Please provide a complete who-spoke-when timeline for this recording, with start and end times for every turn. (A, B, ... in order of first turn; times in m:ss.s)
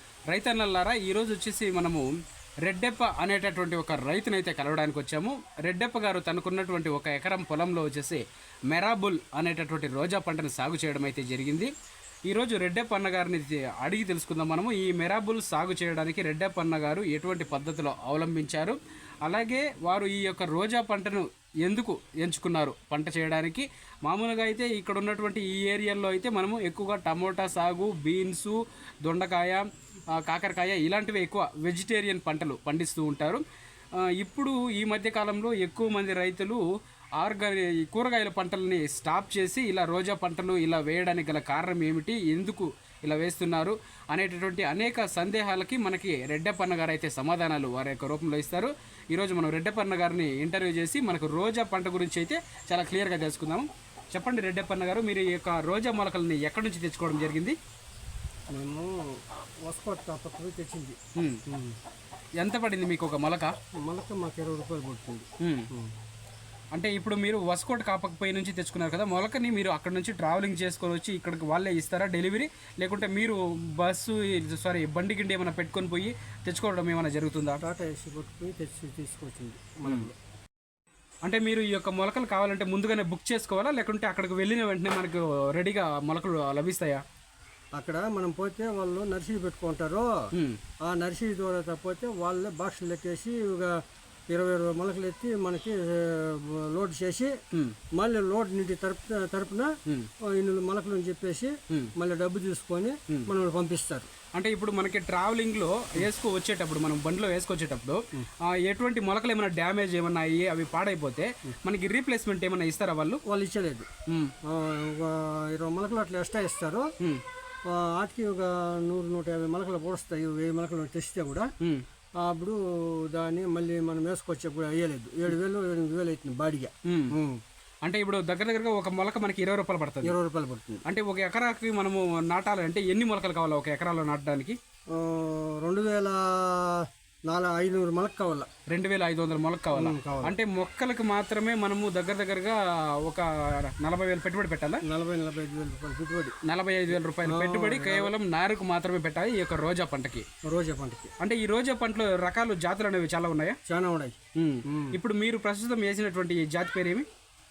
0:00.3-0:02.1 A
0:02.6-0:11.7 A
0:12.3-0:33.4 A
0:34.0-0:36.6 A
0:37.2-0:57.6 A
0:58.5-1:01.8 B
1:01.2-1:01.4 A
1:02.4-1:03.5 A
1:03.8-1:05.9 B
1:05.4-1:05.7 A
1:06.7-1:17.6 A
1:17.6-1:20.1 B
1:19.8-1:20.1 A
1:21.2-1:27.0 A
1:27.8-1:30.1 B
1:30.9-1:33.8 B
1:34.3-1:37.4 B
1:37.5-1:37.8 A
1:37.9-1:44.1 B
1:44.3-1:53.2 A
1:53.3-1:53.9 B
1:54.1-1:54.3 A
1:54.4-1:56.9 B
1:57.6-2:01.5 B
2:02.2-2:07.4 B
2:06.9-2:07.2 A
2:07.8-2:10.1 A
2:10.0-2:10.8 B
2:10.8-2:14.6 A
2:14.9-2:18.5 B
2:18.7-2:24.8 A
2:19.7-2:20.4 B
2:24.8-2:26.4 B
2:26.4-2:30.2 A
2:27.2-2:28.1 B
2:30.4-2:31.1 B
2:31.2-2:33.6 A
2:33.7-2:35.0 B
2:34.4-2:37.0 A